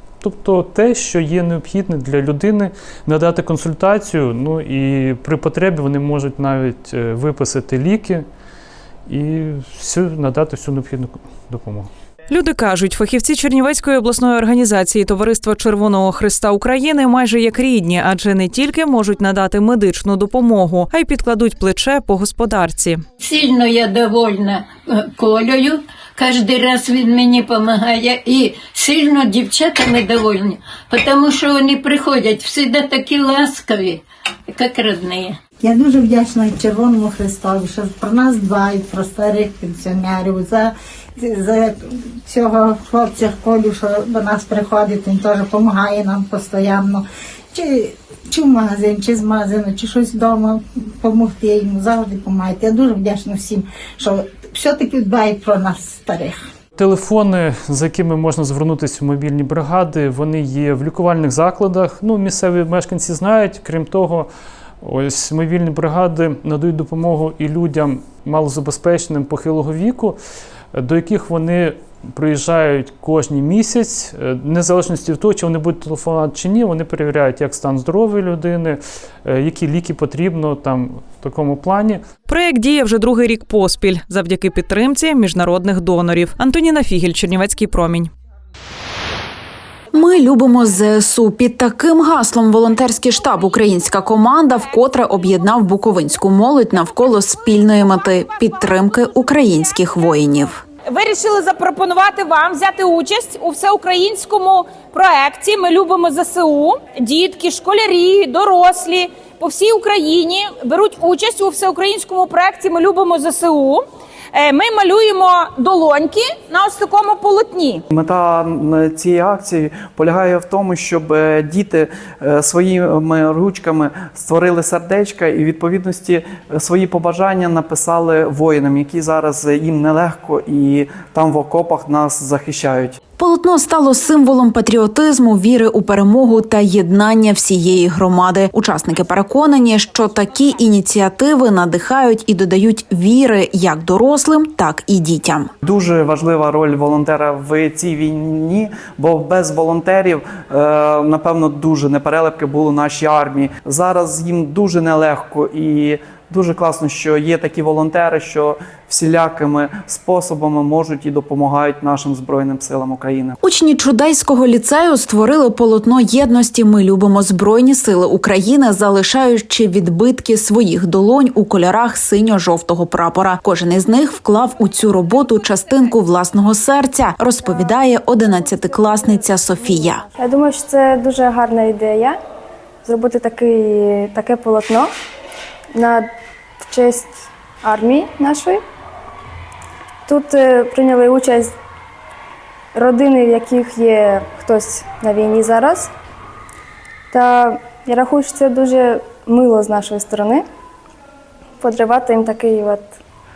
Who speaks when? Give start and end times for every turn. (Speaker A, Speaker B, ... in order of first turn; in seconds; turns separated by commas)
Speaker A: 0.2-8.2, Speaker A: 9.1-11.9, Speaker B: 12.3-23.0, Speaker C: 23.2-35.4, Speaker D: 35.6-56.4, Speaker A: 56.8-64.3, Speaker A: 64.8-70.2, Speaker A: 70.7-82.0, Speaker B: 82.3-88.1, Speaker E: 89.9-100.6, Speaker F: 100.8-117.8, Speaker G: 117.9-133.0, Speaker E: 133.2-145.5, Speaker G: 145.6-163.3, Speaker E: 163.4-180.1, Speaker H: 180.2-182.2, Speaker H: 182.8-184.9, Speaker H: 185.7-186.1, Speaker H: 186.6-188.6, Speaker H: 190.1-191.5, Speaker H: 192.7-195.9, Speaker H: 197.1-200.4, Speaker H: 201.6-202.9